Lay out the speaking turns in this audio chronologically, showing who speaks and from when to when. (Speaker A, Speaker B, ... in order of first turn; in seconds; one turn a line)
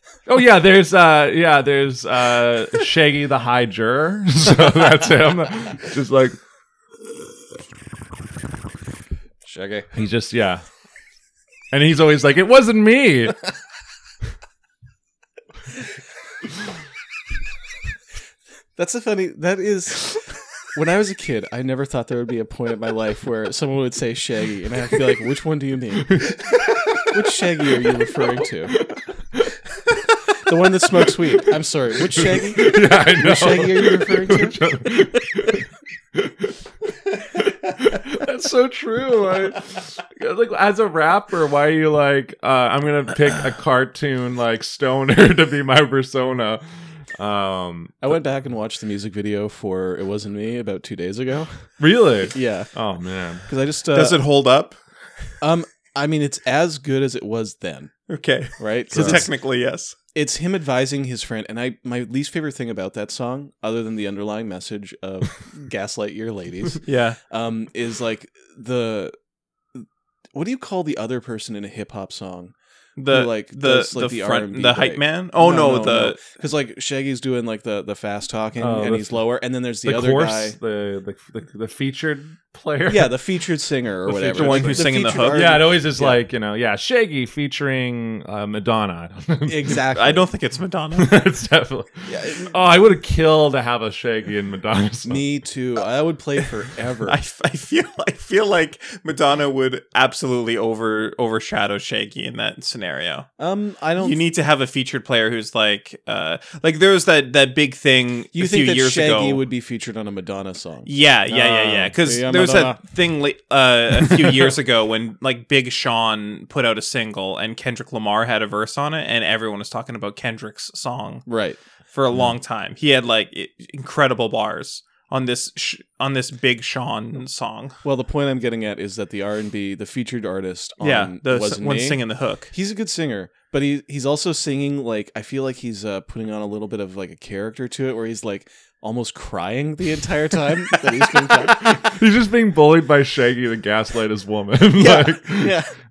Speaker A: 0.3-6.4
Speaker B: 9.4-9.9
Speaker A: 9.9-10.6
Speaker A: 11.7-13.4
Speaker B: 18.8-26.3
Speaker A: 26.1-26.4
Speaker B: 27.1-28.8
Speaker A: 28.8-29.4
Speaker B: 30.4-35.5
Speaker A: 32.2-36.5
Speaker A: 37.4-48.1
Speaker B: 48.0-51.7
Speaker A: 51.8-53.5
Speaker B: 52.3-52.7
Speaker B: 53.5-54.2
Speaker C: 53.9-54.8
Speaker B: 55.4-57.9
Speaker C: 58.1-60.0
Speaker B: 58.6-59.3
Speaker A: 58.9-59.2
Speaker B: 60.1-69.2
Speaker C: 66.8-67.2
Speaker B: 69.7-72.5
Speaker C: 73.0-76.2
Speaker B: 73.1-80.6
Speaker A: 78.6-79.2
Speaker A: 79.8-83.2
Speaker B: 82.9-86.2
Speaker A: 84.1-89.8
Speaker C: 84.3-85.5
Speaker B: 89.5-90.3
Speaker C: 89.9-91.2
Speaker A: 91.0-95.2
Speaker B: 92.1-92.5
Speaker B: 95.0-97.2
Speaker C: 97.0-103.3
Speaker B: 103.4-104.2
Speaker C: 104.0-109.4
Speaker B: 108.3-112.8
Speaker C: 110.9-121.2
Speaker B: 114.0-114.5
Speaker B: 121.3-121.6
Speaker C: 121.9-127.8
Speaker B: 127.8-142.0
Speaker C: 130.8-132.5
Speaker A: 141.3-145.6
Speaker B: 144.8-145.8